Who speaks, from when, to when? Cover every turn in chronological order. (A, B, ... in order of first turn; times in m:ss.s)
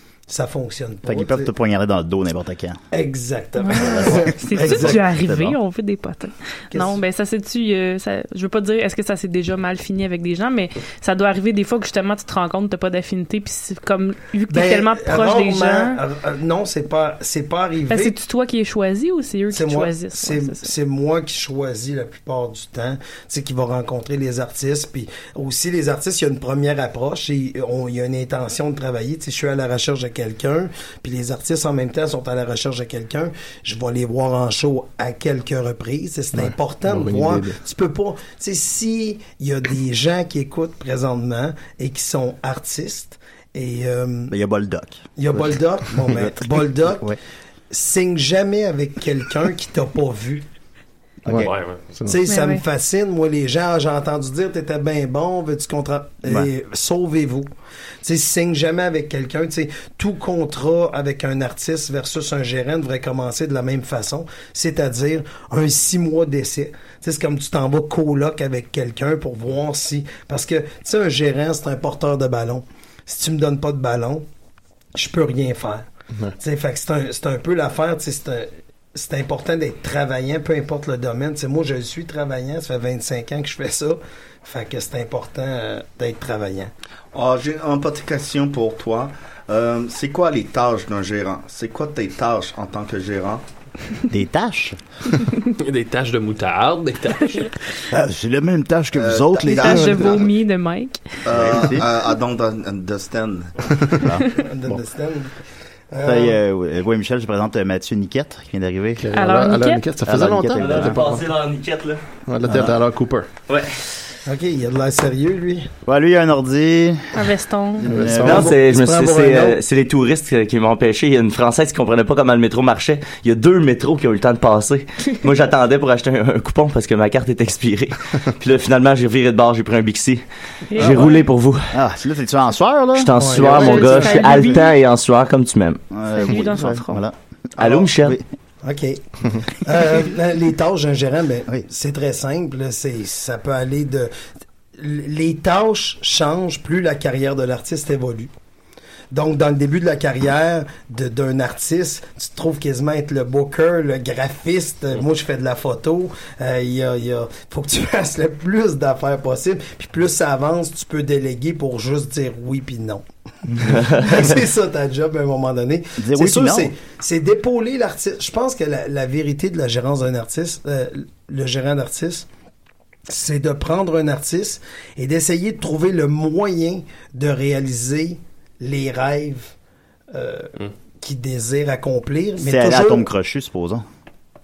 0:00.3-0:01.5 A
0:01.0-0:02.8 B
0:02.9-0:05.0 A
0:03.6-0:16.0 C
0:04.0-0:05.6 B
0:06.7-0:07.0 A
0:14.5-0:18.2 A
0:17.9-0:20.7 C
0:19.5-0:44.4 A
0:36.4-0:37.6 D
0:44.3-0:45.0 B
0:45.2-0:47.1 A
0:46.1-0:47.2 B
0:47.7-0:50.4 A
0:51.2-0:51.5 B
0:51.3-0:52.1 D
0:51.4-0:51.8 E
0:52.1-0:57.5 A
0:52.2-0:52.6 C
0:58.0-1:14.2 A
1:15.0-1:15.8 A
1:16.4-1:26.7 A
1:27.1-1:33.4 F
1:34.1-1:34.8 B
1:35.6-1:37.6 E
1:37.9-1:40.2 B
1:38.9-1:40.3 F
1:39.4-1:41.3 C
1:41.3-1:43.6 F
1:41.3-1:41.9 B
1:43.8-1:44.1 D
1:44.0-1:44.3 B
1:44.3-1:45.3 A
1:45.9-1:46.4 A
1:46.0-1:49.1 B
1:49.0-1:51.3 D
1:49.1-1:50.0 C
1:50.0-1:51.1 B
1:50.6-1:52.0 G
1:52.3-1:53.3 D
1:54.3-1:55.7 A
1:55.9-1:57.3 B
1:57.2-1:57.9 C
1:57.8-1:58.5 B
1:57.9-1:58.5 D
1:58.2-1:59.6 A
1:58.3-2:10.2 G
2:10.7-2:11.2 C
2:10.7-2:11.8 G
2:11.7-2:13.9 B
2:13.0-2:15.8 G
2:13.2-2:14.5 A
2:13.6-2:14.7 C
2:15.9-2:18.2 B
2:16.1-2:17.0 C
2:17.6-2:18.2 G
2:18.6-2:24.1 A
2:24.8-2:28.3 A
2:29.1-2:43.0 A
2:43.6-2:52.3 A
2:46.0-2:46.7 B
2:53.1-2:59.5 A
3:00.1-3:03.1 A
3:02.4-3:03.8 B